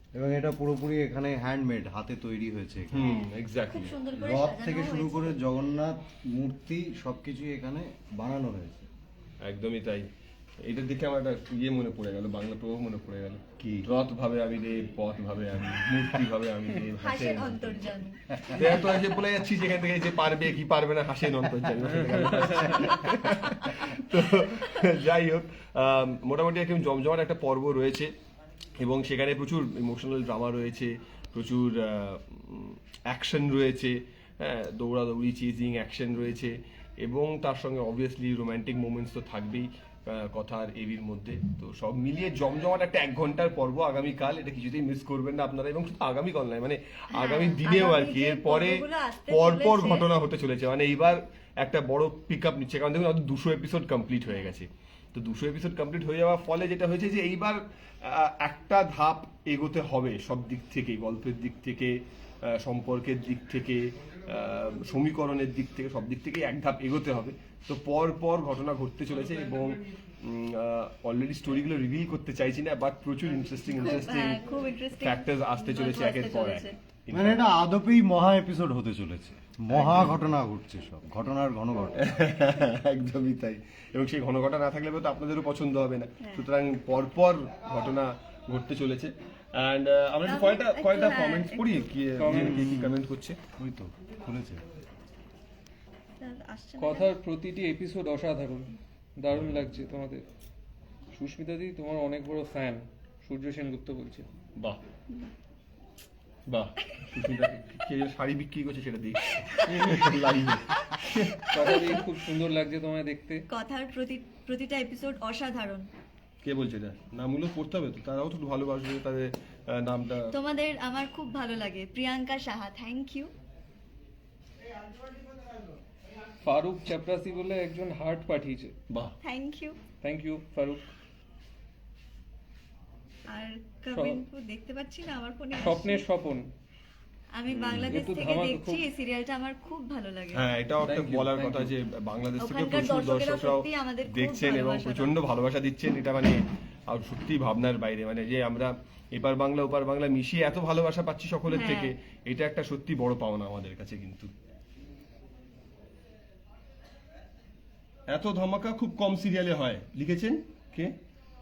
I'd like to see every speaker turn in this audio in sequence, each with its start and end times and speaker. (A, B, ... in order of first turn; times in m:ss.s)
0:00.1-0:03.1 A
0:02.9-0:04.0 B
0:03.0-0:05.4 C
0:04.2-0:08.9 A
0:09.4-0:10.1 B
0:10.6-0:18.0 B
0:13.6-0:13.9 A
0:17.0-0:18.9 C
0:18.5-0:28.1 B
0:22.0-0:22.9 D
0:28.8-1:14.4 B
0:47.1-0:50.1 C
1:13.8-1:16.8 C
1:15.0-1:17.4 B
1:17.1-1:22.0 A
1:19.7-1:20.2 B
1:22.0-1:33.4 B
1:26.2-1:26.5 C
1:30.3-1:31.9 C
1:32.2-1:32.9 D
1:32.3-1:32.7 A
1:33.6-1:34.6 A
1:36.2-1:37.1 C
1:36.8-1:40.2 D
1:41.1-1:44.3 D
1:46.5-1:51.7 B
1:49.7-1:50.2 D
1:51.5-1:53.4 D
1:53.5-1:55.9 C
1:56.4-2:00.3 B
2:00.3-2:03.3 C
2:06.4-2:08.8 D
2:09.2-2:09.8 C
2:10.0-2:10.9 D
2:13.3-2:16.0 C
2:13.9-2:14.2 D
2:15.6-2:16.5 D
2:17.4-2:20.4 C
2:17.6-2:17.9 B
2:17.8-2:18.8 D
2:20.3-2:34.3 B
2:20.8-2:21.7 D
2:22.4-2:25.1 C
2:31.5-2:31.9 C
2:38.1-2:40.9 B